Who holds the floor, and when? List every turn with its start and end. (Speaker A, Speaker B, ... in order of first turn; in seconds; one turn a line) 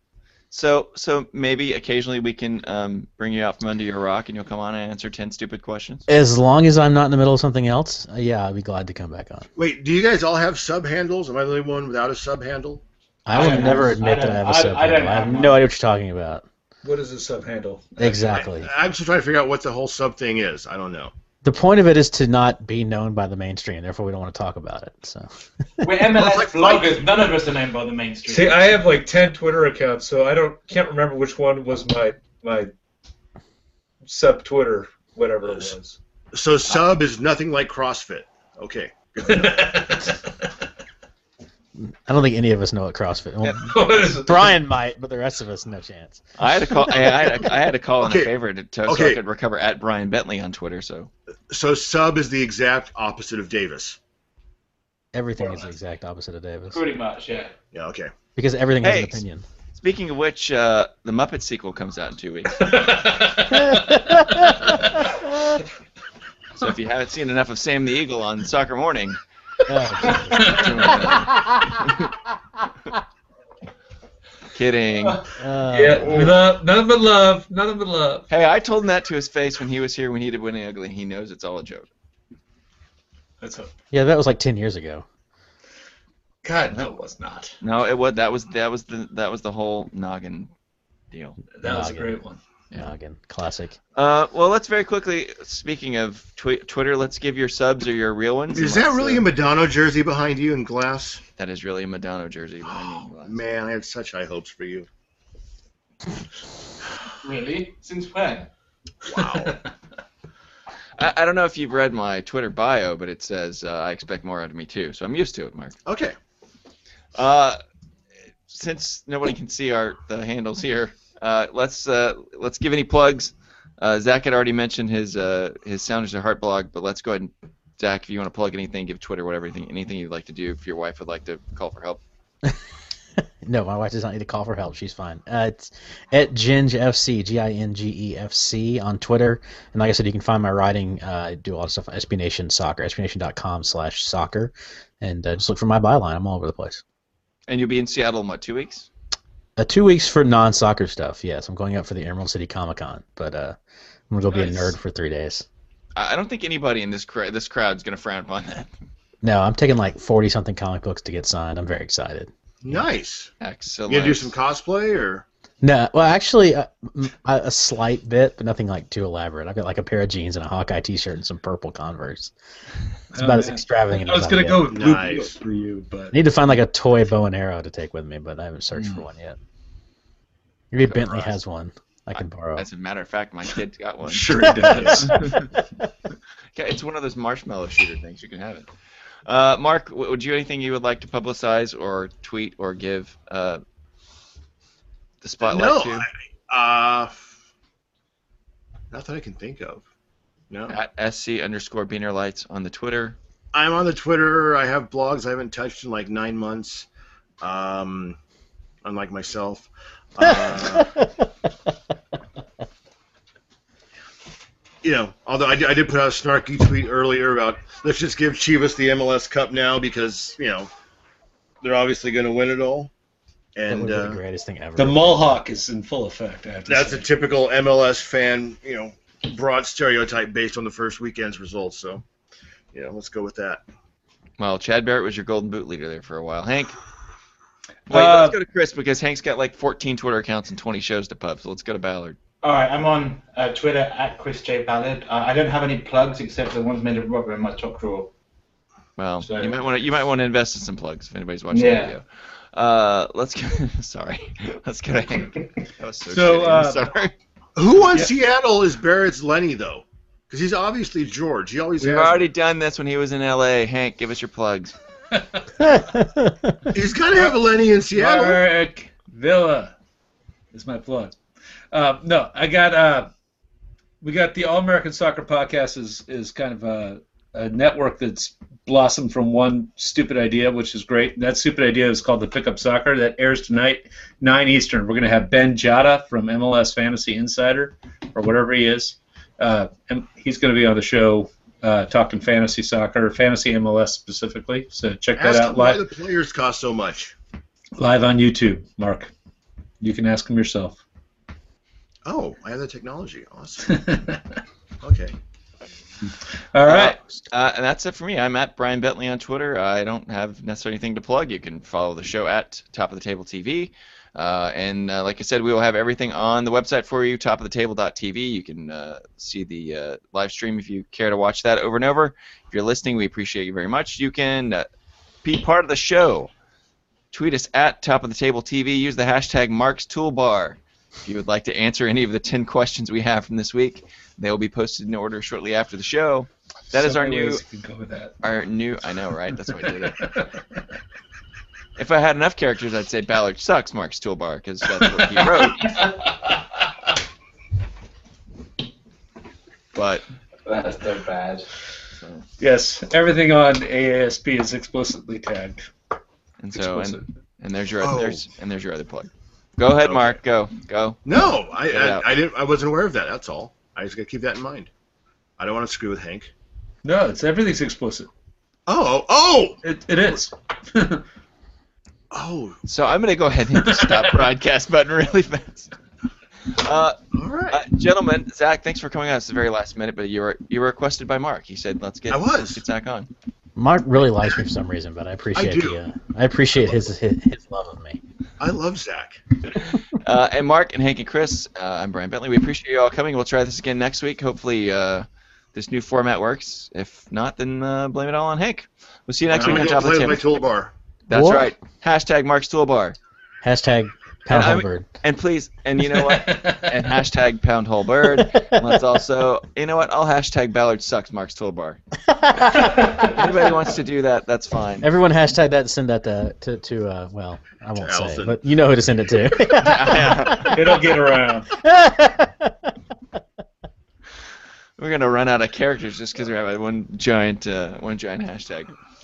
Speaker A: 0.5-6.0
Speaker B: 6.1-9.5
Speaker C: 9.6-12.8
Speaker B: 13.3-16.4
Speaker D: 13.3-15.6
Speaker E: 13.3-13.8
Speaker E: 16.8-18.0
Speaker B: 18.0-18.7
Speaker C: 18.0-21.1
Speaker B: 21.4-25.3
Speaker D: 25.8-28.8
Speaker C: 26.1-27.0
Speaker E: 28.3-32.7
Speaker E: 34.0-36.0
Speaker C: 35.5-35.7
Speaker C: 36.3-40.0
Speaker E: 39.3-40.5
Speaker B: 41.8-47.2
Speaker E: 43.6-44.5
Speaker A: 46.4-51.1
Speaker C: 48.0-48.3
Speaker C: 48.9-49.2
Speaker C: 51.5-54.0
Speaker B: 55.1-56.8
Speaker D: 56.7-57.5
Speaker C: 57.7-58.1
Speaker B: 58.4-59.4
Speaker A: 58.8-59.2
Speaker A: 59.8-63.1
Speaker E: 62.6-64.5
Speaker B: 63.5-65.6
Speaker A: 66.6-69.2
Speaker B: 69.7-71.4
Speaker A: 70.0-72.0
Speaker E: 70.3-70.8
Speaker A: 74.5-75.2
Speaker B: 75.4-76.3
Speaker E: 75.7-78.3
Speaker A: 78.3-81.9
Speaker E: 83.4-83.7
Speaker B: 83.9-85.0
Speaker E: 86.4-87.5
Speaker A: 87.6-90.5
Speaker A: 91.1-91.4
Speaker E: 91.5-92.4
Speaker B: 91.6-92.2
Speaker B: 92.7-93.8
Speaker A: 94.0-99.3
Speaker C: 98.5-101.2
Speaker A: 101.4-103.4
Speaker C: 102.7-104.9
Speaker D: 107.2-108.5
Speaker C: 109.0-109.6
Speaker E: 109.2-109.7
Speaker A: 111.0-115.8
Speaker C: 115.9-116.2
Speaker A: 117.2-117.6
Speaker A: 118.5-132.0
Speaker B: 133.4-146.8
Speaker A: 147.5-148.9
Speaker B: 149.6-153.6
Speaker B: 154.1-155.4
Speaker A: 154.4-154.7
Speaker A: 156.0-158.7
Speaker B: 159.2-162.9
Speaker C: 162.6-163.3
Speaker A: 163.4-164.3
Speaker C: 163.9-165.2
Speaker B: 165.6-172.3
Speaker E: 173.1-176.2
Speaker B: 173.2-174.8
Speaker C: 174.7-175.4
Speaker B: 176.1-179.4
Speaker B: 180.7-182.7
Speaker A: 180.8-181.4
Speaker A: 182.2-185.3
Speaker E: 184.1-185.5
Speaker B: 184.4-185.3
Speaker A: 186.5-188.7
Speaker A: 189.3-193.6
Speaker A: 195.2-196.1
Speaker C: 195.4-197.2
Speaker C: 198.9-199.8
Speaker C: 200.5-200.8
Speaker A: 200.7-203.2
Speaker C: 203.5-206.9
Speaker C: 207.4-208.2
Speaker C: 208.8-211.0
Speaker B: 210.2-211.3
Speaker C: 214.8-220.7
Speaker C: 221.6-222.9
Speaker C: 223.6-224.2
Speaker B: 223.7-225.3
Speaker E: 224.8-227.1
Speaker C: 226.7-232.0
Speaker C: 232.7-233.6
Speaker A: 234.4-236.8
Speaker E: 237.9-238.4
Speaker A: 237.9-242.2
Speaker D: 242.4-248.1
Speaker A: 249.0-257.1
Speaker D: 249.2-249.5
Speaker D: 251.5-251.9
Speaker E: 256.1-256.9
Speaker C: 257.6-262.3
Speaker A: 261.8-264.8
Speaker E: 265.1-265.4
Speaker B: 265.6-266.6
Speaker C: 266.7-268.5
Speaker E: 267.9-269.7
Speaker E: 270.5-271.2
Speaker E: 271.7-273.1
Speaker E: 274.0-295.8
Speaker C: 295.2-297.1
Speaker E: 297.8-299.1
Speaker E: 299.8-300.8
Speaker C: 302.1-303.8
Speaker E: 303.6-304.4
Speaker C: 304.8-305.1
Speaker E: 306.1-307.0
Speaker A: 306.6-324.7
Speaker A: 325.2-326.3
Speaker A: 327.1-337.4
Speaker E: 336.7-338.1
Speaker A: 338.2-340.2
Speaker E: 339.5-340.6
Speaker A: 341.8-345.8
Speaker E: 344.8-345.5
Speaker A: 349.7-350.0
Speaker D: 350.4-351.5
Speaker A: 352.0-352.3
Speaker E: 352.4-355.7
Speaker A: 356.4-362.2
Speaker E: 356.6-357.0
Speaker C: 357.8-358.2
Speaker C: 359.8-360.2
Speaker C: 361.1-364.7
Speaker C: 365.4-366.3
Speaker E: 366.8-368.1
Speaker C: 368.7-369.6
Speaker E: 369.6-371.0
Speaker C: 372.1-372.6
Speaker A: 372.7-375.7
Speaker E: 373.6-374.2
Speaker A: 376.5-377.0
Speaker C: 377.1-377.6
Speaker A: 377.5-383.1
Speaker C: 382.1-382.6
Speaker B: 383.6-388.0
Speaker C: 385.4-385.8
Speaker C: 388.4-389.2
Speaker A: 389.6-400.2
Speaker C: 399.3-400.7
Speaker A: 401.1-403.0
Speaker B: 401.1-401.5
Speaker B: 403.4-404.9
Speaker A: 404.3-411.8
Speaker E: 405.9-406.8
Speaker B: 408.1-408.8
Speaker B: 412.1-413.1
Speaker A: 413.0-414.9
Speaker B: 414.8-420.8
Speaker C: 417.8-418.4
Speaker A: 419.6-420.6
Speaker E: 420.5-421.5
Speaker B: 421.5-422.7
Speaker A: 424.8-428.7